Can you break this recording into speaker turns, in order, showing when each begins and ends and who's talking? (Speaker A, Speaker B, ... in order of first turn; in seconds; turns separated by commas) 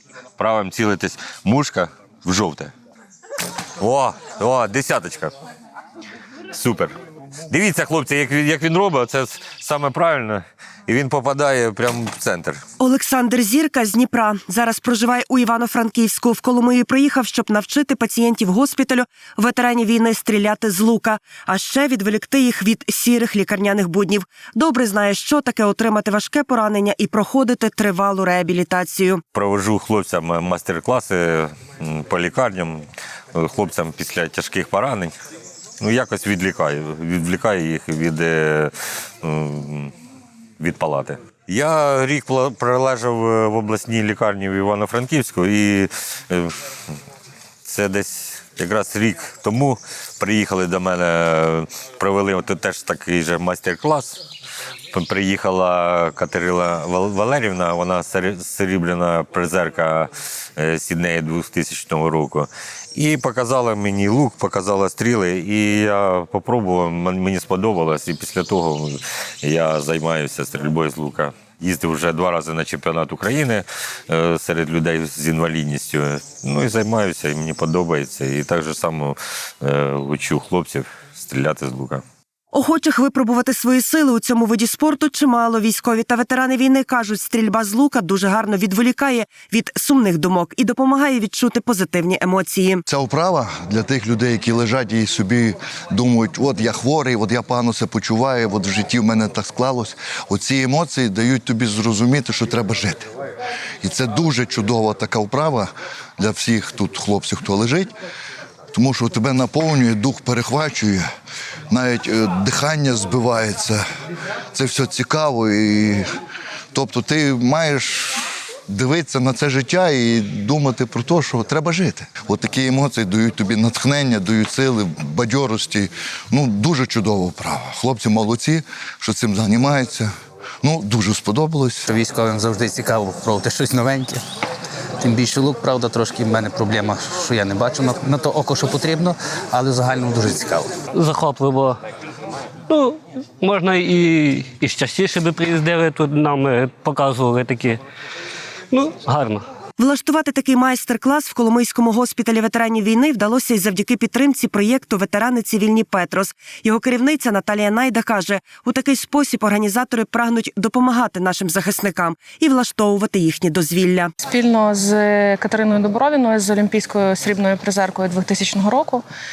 Speaker A: 0.4-2.7, Speaker A: 3.8-5.3, Speaker A: 6.5-6.9, Speaker A: 7.5-12.6, Speaker B: 12.8-29.2, Speaker A: 29.3-35.1, Speaker A: 35.8-39.9, Speaker A: 40.6-46.6, Speaker A: 47.6-54.2, Speaker A: 54.9-82.0, Speaker B: 82.5-92.8, Speaker C: 92.9-103.1, Speaker C: 103.8-107.9, Speaker C: 108.7-111.0, Speaker C: 111.7-113.8, Speaker C: 114.5-116.0, Speaker C: 116.7-130.1, Speaker C: 130.6-131.9, Speaker D: 131.9-134.2, Speaker D: 135.0-140.7, Speaker E: 140.9-141.8, Speaker E: 142.7-147.8, Speaker E: 148.7-149.4, Speaker B: 149.8-164.1, Speaker F: 164.2-169.0